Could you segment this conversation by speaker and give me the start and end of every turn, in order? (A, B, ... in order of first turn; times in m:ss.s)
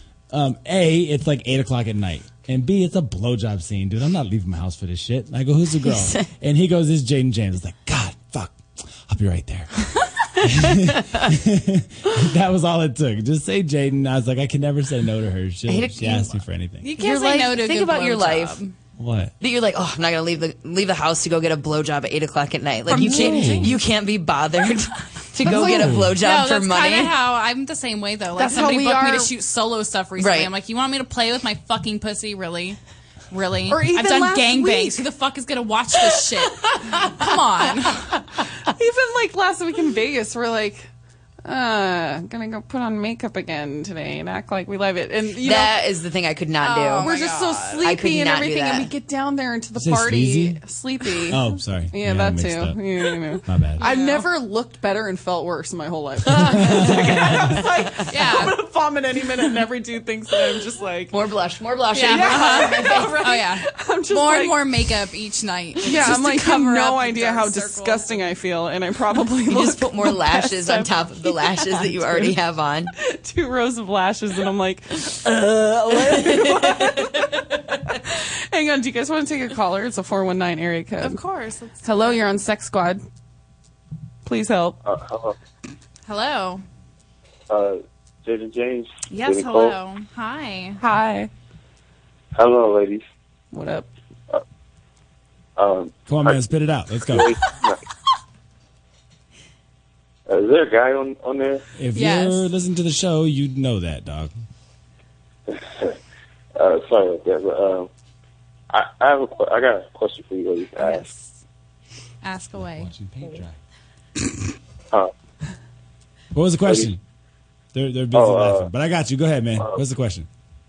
0:00.3-0:16.9 A
0:05.8-0:06.3 B
0:10.8-0:11.3 B
0:15.7-0:16.4 B
0:16.8-0:18.7 C
0:16.9-0:18.6 B
0:19.0-0:19.3 A
0:19.4-0:27.2 B
0:22.9-0:23.7 D
0:23.0-0:23.7 A
0:25.4-0:26.2 A
0:25.5-0:25.9 D
0:26.2-0:32.8 C
0:28.3-0:29.3 D
0:30.2-0:30.5 B
0:33.3-0:38.2 C
0:33.7-0:35.0 D
0:38.4-0:40.9 D
0:41.4-0:45.8 D
0:45.4-0:47.1 B
0:46.6-0:47.8 C
0:47.0-1:01.2 D
0:47.8-0:48.9 B
0:49.7-0:50.6 A
0:51.3-0:52.9 A
0:53.4-0:53.8 A
0:53.8-0:54.3 C
0:56.3-0:57.3 A
0:58.1-0:58.6 C
1:01.1-1:03.3 B
1:01.9-1:08.2 C
1:02.0-1:04.7 D
1:05.8-1:12.4 D
1:09.5-1:12.9 B
1:13.0-1:21.2 D
1:16.3-1:17.1 B
1:21.0-1:22.4 C
1:21.8-1:23.0 D
1:24.2-1:24.8 D
1:24.8-1:25.3 E
1:26.0-1:26.6 C
1:27.5-1:29.8 E
1:29.1-1:30.8 C
1:30.8-1:31.3 D
1:32.3-1:33.0 E
1:33.5-1:33.9 D
1:35.6-1:36.4 E
1:36.1-1:37.3 A
1:37.1-1:37.8 E
1:40.3-1:41.6 E
1:41.8-1:44.3 A
1:41.9-1:42.5 C
1:45.5-1:45.9 E
1:46.6-1:47.9 E
1:48.7-1:51.0 E
1:50.8-1:51.3 C
1:52.2-1:52.9 C
1:52.5-1:53.6 A
1:56.3-1:57.0 A
1:56.6-1:56.9 E
1:57.7-2:00.3 A
1:58.1-1:58.7 E